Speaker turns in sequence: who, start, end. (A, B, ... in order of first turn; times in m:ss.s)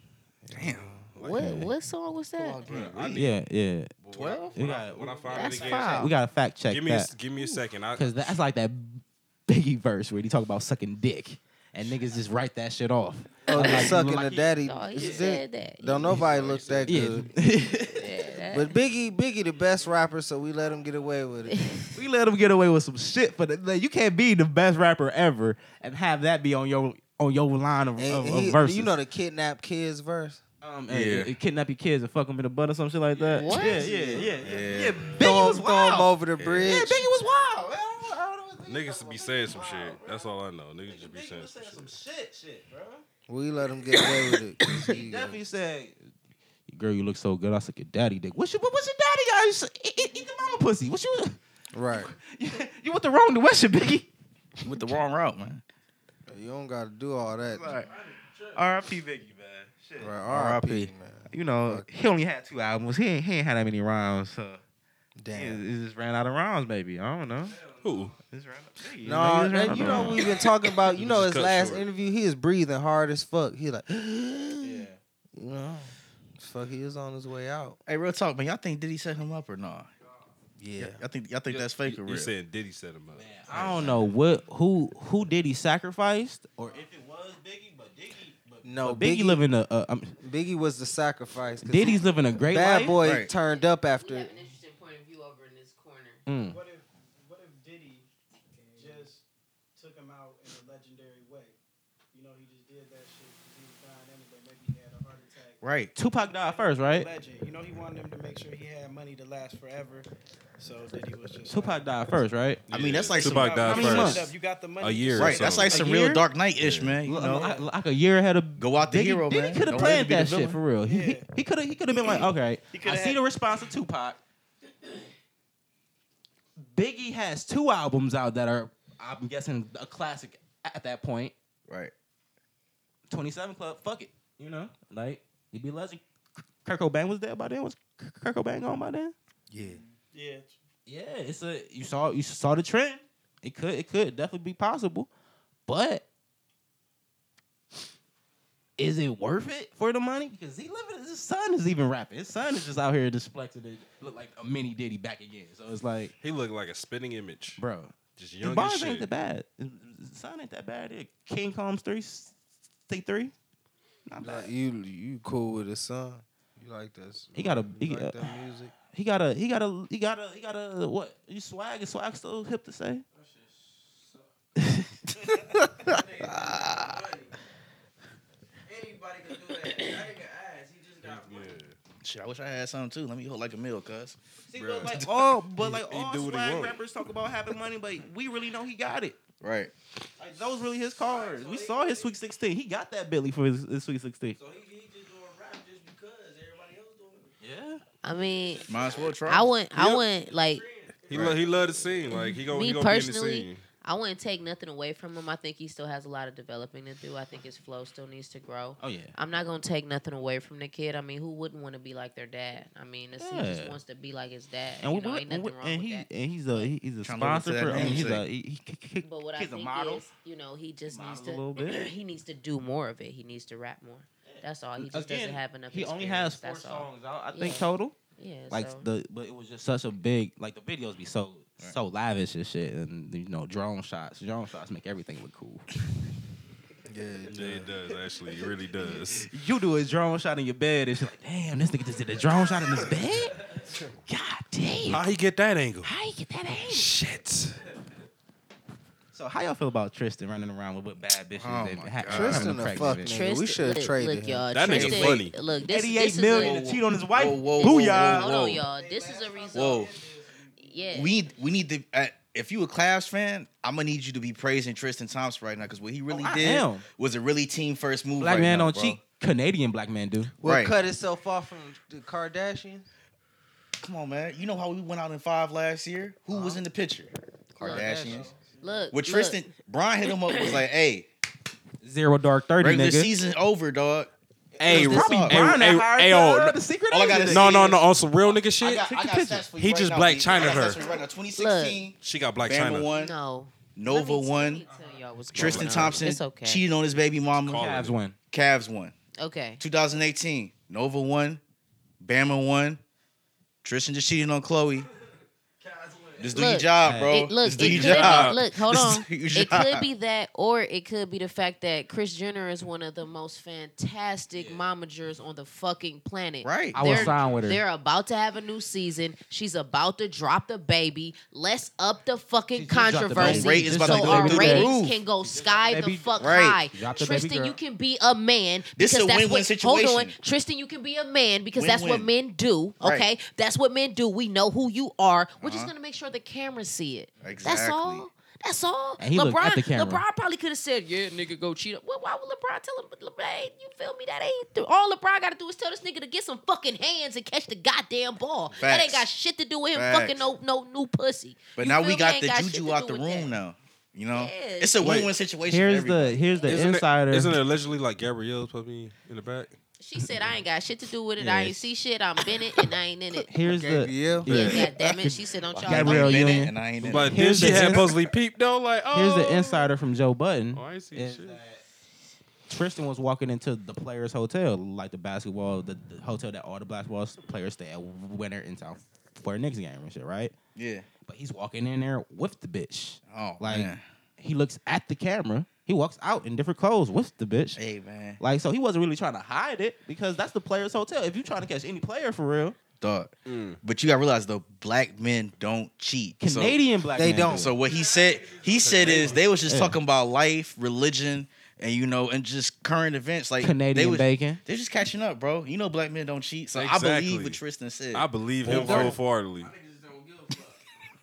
0:00.4-0:01.1 A
0:00.5-0:01.2 B
0:01.2-0:02.6 C
0:01.3-0:01.7 D
0:02.4-0:03.4 B
0:02.7-0:07.1 D
0:04.0-0:06.1 E
0:04.1-0:04.7 B
0:05.3-0:06.1 C
0:06.7-0:08.1 E
0:08.0-0:14.4 D
0:13.5-0:16.2 C
0:13.5-0:17.3 A
0:16.2-0:18.1 D
0:16.2-0:17.0 E
0:18.0-0:18.7 C
0:18.5-0:21.6 A
0:21.5-0:21.9 C
0:21.9-0:28.9 D
0:28.0-0:30.4 A
0:30.6-0:40.2 D
0:30.9-0:31.3 B
0:33.3-0:33.8 C
0:33.8-0:34.2 A
0:33.9-0:35.4 B
0:35.2-0:37.1 A
0:37.2-0:37.6 F
0:38.7-0:42.0 E
0:40.8-0:43.0 D
0:43.3-0:45.4 A
0:44.8-0:46.0 D
0:46.7-0:51.4 D
0:51.7-0:52.1 A
0:52.0-0:54.1 D
0:54.6-0:55.6 B
0:56.3-0:57.8 A
0:57.5-0:57.8 D
0:57.8-0:58.7 F
0:58.5-1:00.2 D
1:00.0-1:01.9 A
1:00.3-1:00.9 B
1:01.3-1:04.6 D
1:05.2-1:05.6 A
1:05.3-1:07.6 D
1:07.4-1:08.2 F
1:07.8-1:08.1 E
1:08.2-1:10.4 D
1:09.0-1:17.8 A
1:09.7-1:10.2 E
1:11.0-1:11.8 E
1:14.6-1:15.0 D
1:17.9-1:19.9 B
1:20.6-1:21.0 A
1:20.8-1:22.3 B
1:21.5-1:23.6 E
1:23.1-1:30.2 D
1:23.5-1:24.0 B
1:28.6-1:29.4 A
1:30.2-1:34.3 A
1:31.6-1:33.1 D
1:33.0-1:33.3 B
1:33.4-1:36.2 C
1:36.3-1:36.6 D
1:36.4-1:39.2 F
1:39.8-1:41.6 F
1:42.1-1:52.2 F
1:45.6-1:45.9 B
1:46.0-1:47.1 D
1:51.5-1:52.6 D
1:52.7-1:55.8 E
1:52.7-1:53.9 B
1:53.2-1:55.8 F
1:53.6-1:54.3 D
1:55.2-1:57.6 B
1:55.7-1:56.2 D
1:56.6-1:57.0 E
1:57.0-2:04.2 D
1:57.2-1:57.7 F
1:58.6-2:00.6 B
1:59.7-2:00.0 F
2:00.8-2:01.3 F
2:02.7-2:03.7 F
2:06.6-2:11.3 D
2:11.7-2:11.9 B
2:13.1-2:19.1 D
2:19.5-2:19.8 A
2:19.6-2:20.5 F
2:20.9-2:25.1 D
2:25.7-2:26.0 D
2:28.8-2:36.1 D
2:36.2-2:37.6 E
2:37.6-2:42.3 D
2:38.2-2:39.1 E
2:42.9-2:43.3 D
2:44.1-2:44.5 D
2:44.2-2:48.7 A
2:47.3-2:48.2 D
2:48.8-2:53.0 D
2:53.1-2:54.3 F
2:54.6-2:54.9 D
2:55.1-2:57.4 F
2:58.7-3:01.6 F
3:01.0-3:01.7 E
3:02.0-3:04.2 B
3:04.5-3:09.2 D
3:04.6-3:05.1 E
3:05.0-3:05.3 B
3:05.6-3:06.8 E
3:09.4-3:09.7 B
3:10.2-3:12.2 F
3:10.2-3:14.4 D
3:14.4-3:17.4 F
3:17.4-3:17.8 D
3:18.0-3:18.7 C
3:18.1-3:19.1 F
3:18.7-3:19.5 B
3:19.3-3:20.6 C
3:20.4-3:22.2 F
3:21.1-3:23.6 E
3:21.1-3:21.4 B
3:22.4-3:36.7 C
3:28.8-3:29.1 D
3:33.2-3:33.8 D
3:34.8-3:40.0 D
3:37.0-3:38.3 B
3:39.0-3:48.9 C
3:40.9-3:41.9 D
3:44.3-3:48.0 D
3:48.5-3:55.6 D
3:56.9-3:57.7 A
3:57.3-3:59.3 E
3:58.4-3:59.0 F
3:59.2-4:03.4 D
4:02.1-4:03.7 F
4:04.1-4:05.1 D
4:04.9-4:05.9 E
4:05.8-4:06.9 D
4:06.6-4:07.6 E
4:09.1-4:13.2 D
4:11.4-4:12.6 B
4:12.1-4:14.5 A
4:13.0-4:16.6 C
4:14.5-4:15.3 E
4:14.7-4:15.2 B
4:15.6-4:18.4 D
4:16.3-4:18.3 B
4:17.6-4:19.9 C
4:18.5-4:21.5 F
4:19.5-4:20.0 B
4:20.6-4:21.1 C
4:20.9-4:29.0 B
4:26.1-4:26.9 D
4:28.2-4:30.4 D
4:30.4-4:32.9 A
4:30.4-4:30.7 B
4:33.8-4:38.3 B
4:36.3-4:36.6 A
4:37.6-4:37.9 C
4:37.6-4:38.3 A
4:38.0-4:38.9 F
4:38.6-4:39.4 C
4:38.9-4:41.1 B
4:40.1-4:40.6 C
4:41.8-4:43.1 D
4:42.6-4:45.7 B
4:44.6-4:47.7 D
4:44.6-4:46.6 E
4:46.9-4:47.8 B
4:47.3-4:48.9 E
4:48.6-4:53.2 B
4:48.9-4:49.5 D
4:49.6-4:50.8 E
4:50.5-4:51.0 F
4:51.4-4:51.8 C
4:52.0-4:52.9 E
4:52.9-4:56.6 C
4:53.8-4:54.6 B
4:54.6-4:55.2 F
4:55.3-4:57.8 B
4:55.4-4:56.0 E
4:57.4-4:58.0 E
4:57.5-4:58.2 D
4:58.3-4:58.9 B
4:59.2-4:59.6 C
4:59.6-5:01.4 B
5:02.0-5:02.8 B
5:03.6-5:04.9 B
5:05.6-5:06.4 F
5:06.2-5:09.9 B
5:06.3-5:53.3 C
5:06.8-5:07.2 D
5:07.6-5:08.4 E
5:16.4-5:17.2 B
5:16.7-5:17.6 D
5:22.5-5:27.6 D
5:23.1-5:25.0 B
5:26.2-5:26.6 B
5:28.8-5:30.1 B
5:31.6-5:32.1 B
5:32.8-5:33.1 B
5:35.4-5:35.7 B
5:37.2-5:38.0 B
5:39.0-5:40.0 D
5:48.6-5:49.1 B
5:49.7-5:50.2 B
5:51.6-5:56.5 B
5:54.1-5:54.8 C
5:54.8-5:55.1 E
5:55.4-5:57.4 D
5:56.5-5:59.5 E
5:59.8-6:03.3 C
6:01.2-6:01.7 D
6:03.2-6:07.9 D
6:03.4-6:04.3 A
6:04.3-6:06.5 C
6:04.3-6:04.8 B
6:05.7-6:07.9 B
6:06.8-6:09.7 E
6:08.9-6:11.6 D
6:10.5-6:11.4 E
6:12.5-6:20.3 D
6:20.6-6:20.9 B
6:21.0-6:27.6 D
6:23.1-6:23.8 B
6:27.6-6:28.2 B
6:28.2-6:32.6 D
6:32.8-6:33.1 B
6:33.3-6:33.6 E
6:33.6-6:36.7 B
6:36.2-6:37.6 D
6:37.0-6:37.5 A
6:37.2-6:49.0 B
6:37.6-6:39.4 F
6:38.6-6:39.2 E
6:39.4-6:39.8 D
6:43.4-6:44.4 D
6:46.5-6:47.4 E
6:47.9-6:49.5 E
6:48.5-6:48.9 D
6:49.4-6:50.6 F